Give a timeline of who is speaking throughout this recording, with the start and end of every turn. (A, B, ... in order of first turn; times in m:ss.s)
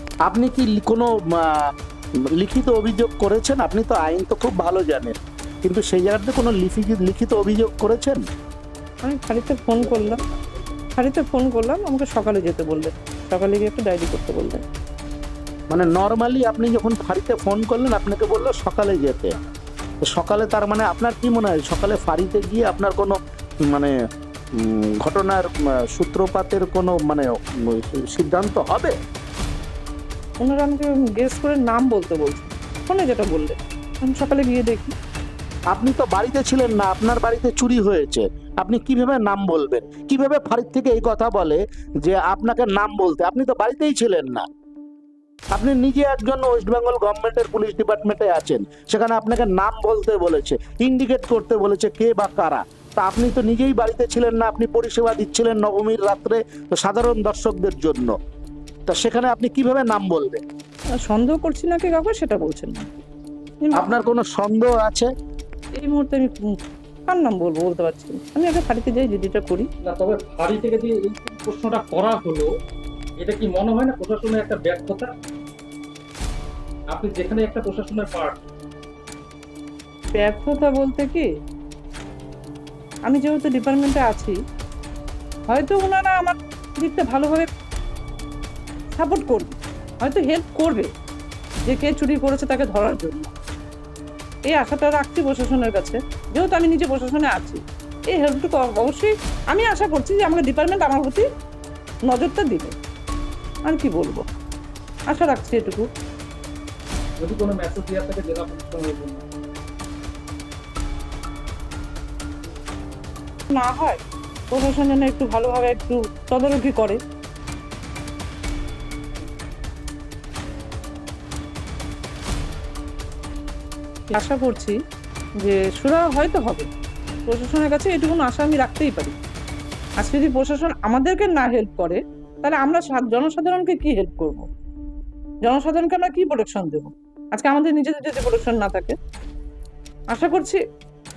0:00.3-0:01.7 A
0:02.4-0:08.2 A
0:09.0-0:10.2 B
0:09.8-0:10.6 A
0:11.0-0:14.6 B
0:15.7-0:19.4 A
0:20.1-0:23.2 A
0:24.6-0:29.0 A
0:30.4-0:35.0 B
0:35.7-0:44.4 A
0:45.5-0:58.1 A
0:58.9-1:00.4 A
1:01.0-1:03.0 B
1:03.6-1:03.9 B
1:03.8-1:05.1 A
1:05.8-1:06.5 B
1:07.1-1:09.7 B
1:09.8-1:12.5 C
1:13.2-1:15.1 C
1:16.9-1:18.4 C
1:20.2-1:21.3 B
1:23.1-1:24.4 B
1:25.5-1:27.5 B
1:28.9-1:30.9 B
1:31.7-1:33.3 B
1:34.5-1:41.2 B
1:42.1-1:42.8 B
1:43.7-1:44.2 B
1:45.1-1:45.9 B
1:47.2-1:49.2 C
1:53.5-1:57.0 B
2:04.1-2:04.8 B
2:05.4-2:06.7 B
2:07.3-2:09.2 B
2:10.0-2:14.5 B
2:15.4-2:19.0 B
2:20.1-2:20.6 B